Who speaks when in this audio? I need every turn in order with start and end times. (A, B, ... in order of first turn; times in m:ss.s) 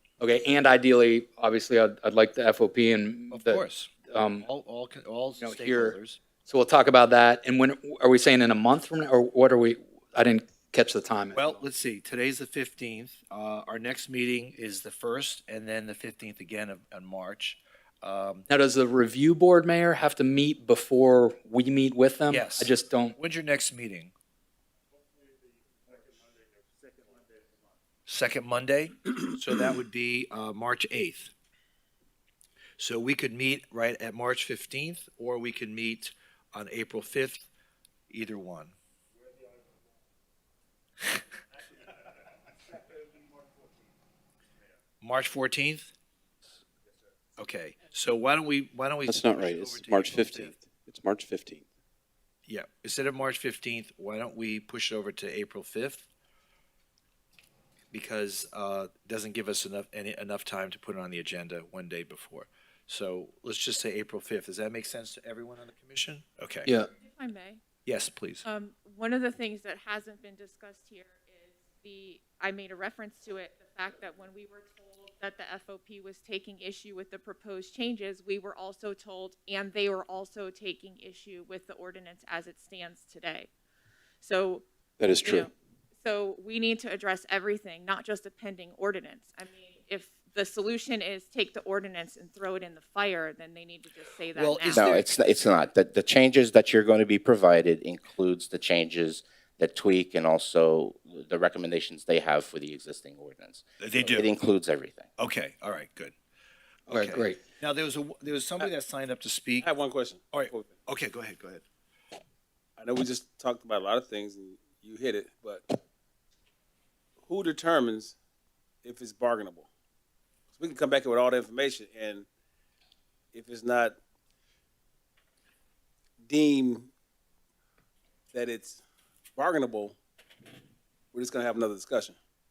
0:00.2-0:04.5 A
0:03.3-0:03.9 B
0:04.4-0:06.2 B
0:05.4-0:11.5 A
0:11.3-0:18.4 B
0:18.5-0:23.2 A
0:22.3-0:24.1 B
0:28.1-0:31.3 B
0:32.8-0:37.5 B
0:38.1-0:38.8 B
0:45.0-0:45.9 B
0:47.4-0:50.5 B
0:49.1-0:51.7 C
0:52.5-0:56.1 B
0:57.9-1:06.7 B
1:06.9-1:07.6 D
1:07.9-1:08.4 B
1:08.4-1:23.5 D
1:24.2-1:24.6 D
1:25.0-1:25.5 C
1:25.2-1:35.0 D
1:34.3-1:35.0 B
1:34.7-1:45.1 E
1:43.8-1:44.3 B
1:45.2-1:46.1 B
1:46.9-1:49.7 B
1:46.9-1:47.4 A
1:49.6-1:50.7 F
1:50.3-1:51.6 B
1:52.8-1:55.7 F
1:57.2-1:58.2 F
1:58.8-1:59.7 F
2:00.5-2:02.3 F
2:03.3-2:04.0 F
2:06.2-2:06.9 F
2:08.3-2:08.8 F
2:09.4-2:10.0 F
2:11.1-2:12.2 F